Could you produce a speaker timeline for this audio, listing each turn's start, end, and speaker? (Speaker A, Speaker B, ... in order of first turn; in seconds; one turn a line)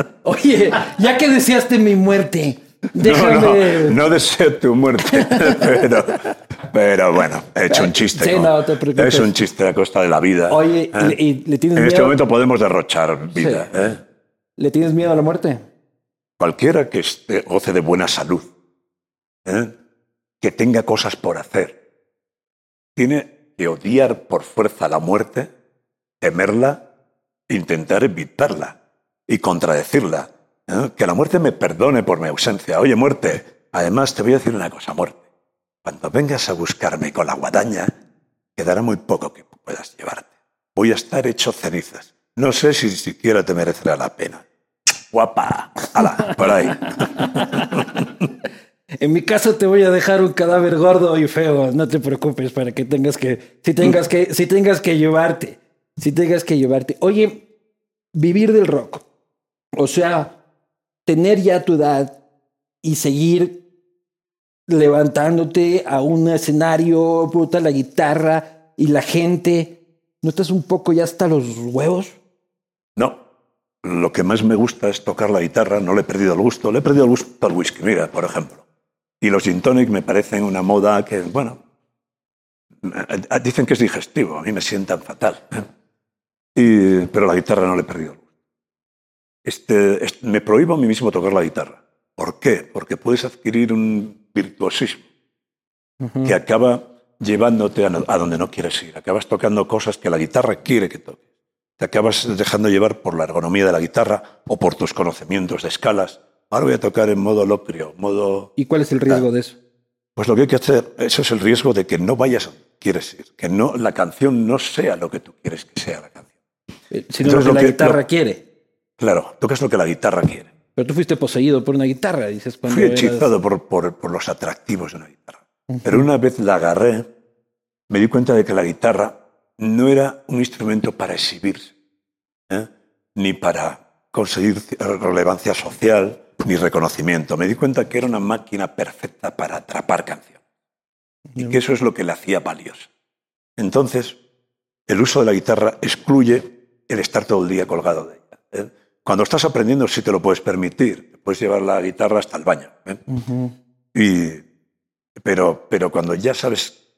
Speaker A: 0.2-4.0
Speaker B: 3.0-11.2
Speaker A: 5.1-6.2
Speaker A: 7.7-9.3
Speaker A: 10.5-12.2
Speaker B: 11.8-14.0
Speaker A: 13.4-13.7
Speaker A: 14.6-15.6
Speaker B: 16.4-18.5
Speaker B: 19.4-19.8
Speaker B: 20.4-21.8
Speaker B: 23.0-25.5
Speaker B: 26.2-26.9
Speaker B: 27.5-35.2
Speaker B: 35.8-37.9
Speaker B: 38.6-44.5
Speaker B: 45.1-48.0
Speaker A: 47.2-47.8
Speaker A: 49.0-57.5
Speaker A: 58.1-59.0
Speaker A: 59.8-60.4
Speaker A: 61.1-62.2
Speaker A: 62.8-63.6
Speaker A: 64.7-72.2
Speaker B: 73.0-73.2
Speaker B: 73.8-78.7
Speaker B: 79.2-81.6
Speaker B: 82.8-85.7
Speaker B: 86.5-88.2
Speaker B: 89.4-95.0
Speaker A: 96.0-96.4
Speaker B: 96.2-101.2
Speaker B: 101.8-108.5
Speaker A: 108.6-109.6
Speaker B: 110.2-116.3
Speaker A: 116.9-118.4
Speaker B: 117.2-118.0
Speaker B: 119.0-120.5
Speaker A: 120.8-123.3
Speaker B: 122.7-127.1
Speaker B: 127.9-131.8
Speaker B: 132.5-140.4
Speaker B: 141.4-142.9
Speaker B: 143.6-144.2
Speaker B: 144.9-153.0
Speaker A: 153.1-153.5
Speaker B: 153.9-154.4
Speaker B: 155.2-156.8